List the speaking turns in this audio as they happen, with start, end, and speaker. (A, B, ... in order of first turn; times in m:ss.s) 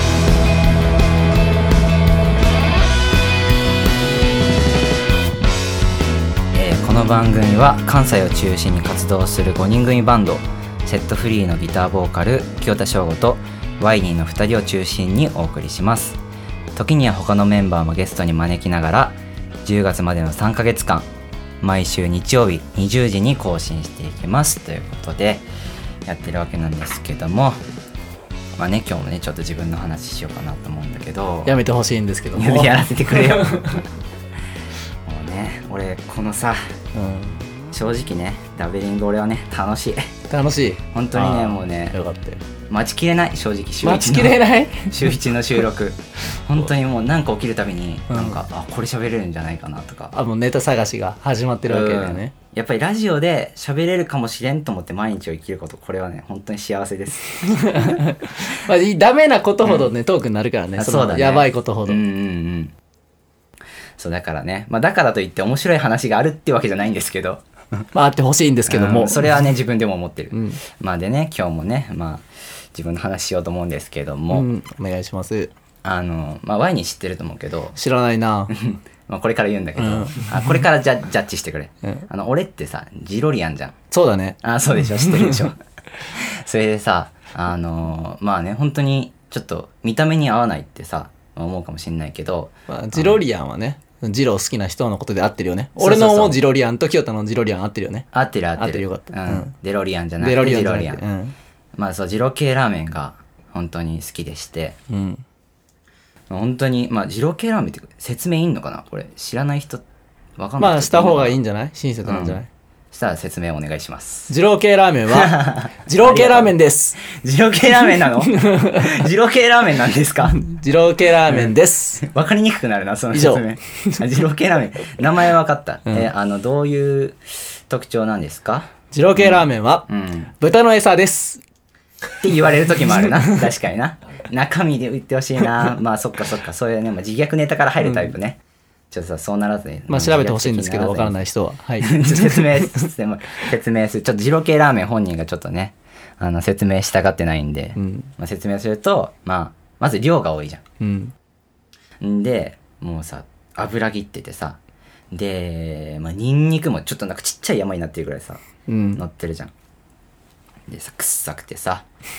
0:06.5-0:16.2 A
0:16.8-0:21.1 A
0:21.6-0:25.4 A
0:26.1-0:27.6 A
0:28.6-0:31.6 A
0:31.5-0:33.8 B
0:32.3-0:33.9 A
0:35.0-0:36.8 A
0:36.9-0:37.5 B
0:37.7-0:40.1 A
0:40.3-0:42.4 B
0:40.9-0:42.0 A
0:42.7-0:50.2 A
0:43.8-0:45.2 B
0:48.1-0:48.4 B
0:50.1-0:52.3 B
0:51.7-0:58.1 A
0:57.4-1:02.0 B
1:00.8-1:02.7 A
1:04.0-1:07.9 A
1:07.9-1:09.3 B
1:08.7-1:14.5 A
1:10.3-1:10.6 B
1:14.3-1:15.5 B
1:15.8-1:17.8 A
1:17.8-1:18.6 B
1:18.5-1:23.8 A
1:19.8-1:20.6 B
1:23.9-1:25.5 B
1:24.4-1:33.2 A
1:32.7-1:39.5 B
1:35.8-1:36.4 A
1:38.1-1:41.0 A
1:40.2-1:41.4 B
1:41.8-1:44.8 A
1:44.9-1:45.2 B
1:46.3-1:49.8 A
1:50.4-1:51.4 A
1:50.6-1:52.5 B
1:52.0-1:54.3 A
1:54.3-1:57.0 B
1:55.1-2:00.4 A
1:57.8-1:59.1 B
2:00.3-2:02.1 B
2:01.3-2:10.3 A
2:03.1-2:04.0 B
2:08.9-2:11.4 B
2:12.2-2:18.4 A
2:13.0-2:13.3 B
2:17.8-2:18.1 B
2:18.9-2:21.2 A
2:19.9-2:22.9 B
2:21.8-2:30.6 A
2:27.8-2:28.1 B
2:30.8-2:31.1 B
2:32.0-2:34.6 A
2:35.1-2:38.4 A
2:38.7-2:39.0 B
2:39.0-2:39.5 A
2:40.7-2:41.9 A